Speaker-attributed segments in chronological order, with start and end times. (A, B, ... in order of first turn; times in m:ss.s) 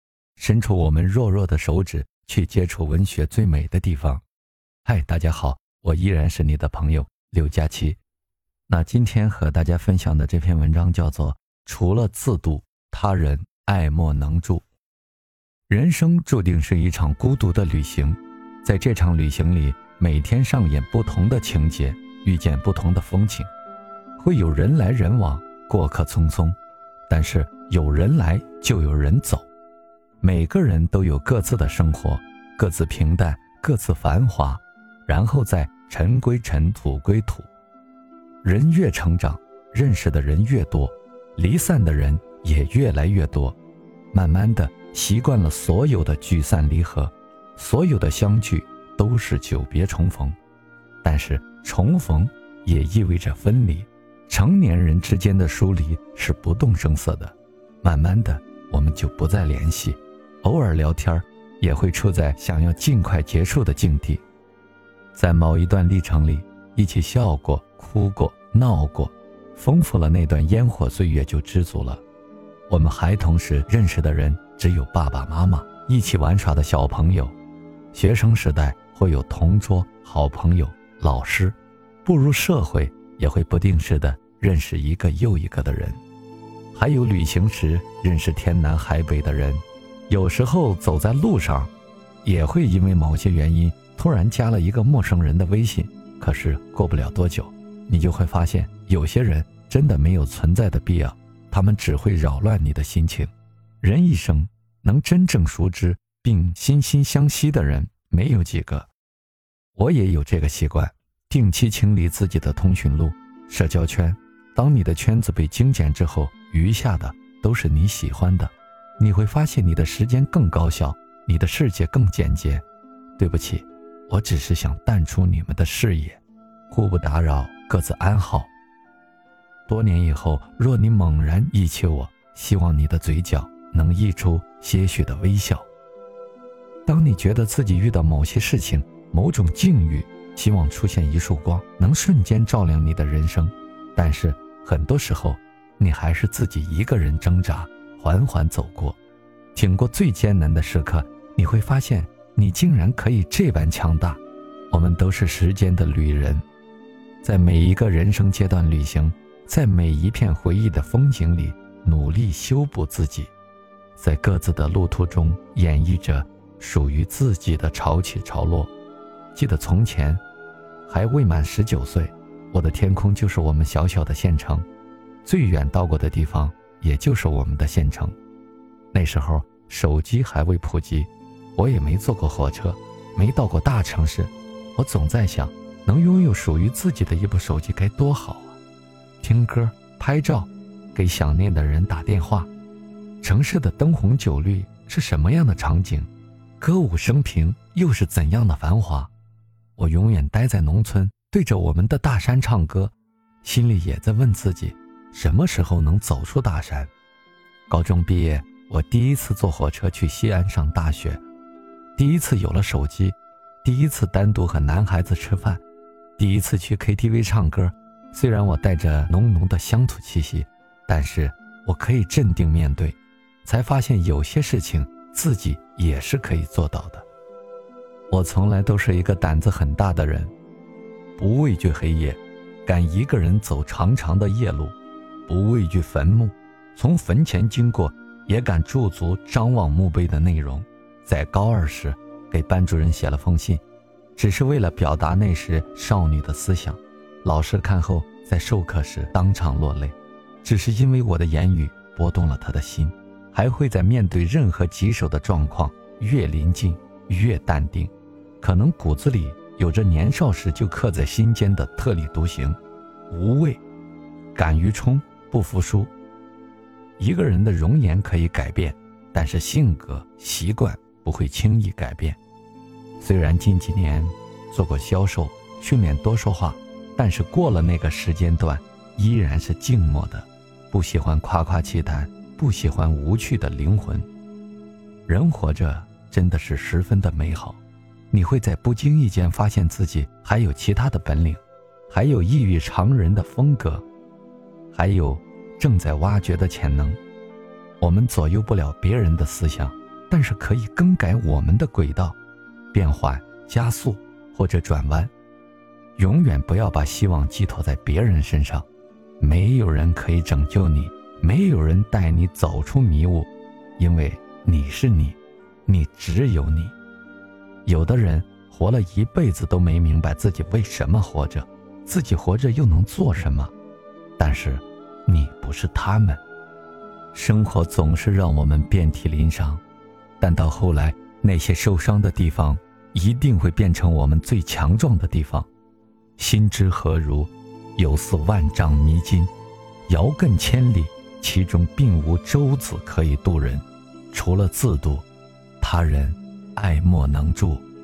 0:00.4-0:04.2 A
0:04.8-0:08.0 A
0:08.7-0:14.6 A
0:15.7-0:23.5 A
0:24.2-0:26.6 A
0:27.1-0:29.5 A
0:30.2-0:37.5 A
0:38.4-0:43.6 A
0:44.1-0:50.4 A
0:51.0-1:04.2 A
1:05.1-1:12.0 A
1:12.7-1:17.4 A
1:17.9-1:26.0 A
1:26.8-1:31.7 A
1:32.2-1:48.9 A
1:49.8-2:02.6 A
2:03.2-2:08.5 A
2:09.7-2:15.7 A
2:16.9-2:29.0 A
2:29.6-2:34.2 A
2:34.7-2:36.4 A
2:37.2-2:43.3 A
2:44.0-2:48.7 A
2:49.4-2:50.2 A
2:50.9-2:54.6 A
2:55.2-2:58.2 A
2:58.9-3:08.6 A
3:09.2-3:12.5 A
3:13.2-3:19.1 A
3:19.8-3:26.9 A
3:27.7-3:31.2 A
3:32.0-3:35.6 A
3:36.2-3:47.1 A
3:48.1-3:50.3 A
3:51.2-4:03.6 A
4:04.2-4:22.6 A
4:23.1-4:23.6 A
4:24.3-4:25.9 A
4:27.0-4:32.2 A
4:33.0-4:44.1 A
4:45.1-4:53.9 A
4:54.7-4:57.0 A
4:57.8-5:02.2 A
5:02.7-5:05.1 A
5:06.0-5:08.7 A
5:09.2-5:16.8 A
5:17.7-5:23.5 A
5:24.2-5:26.2 A
5:27.1-5:29.6 A
5:30.2-5:35.5 A
5:36.2-5:39.3 A
5:39.9-5:45.0 A
5:45.6-5:47.6 A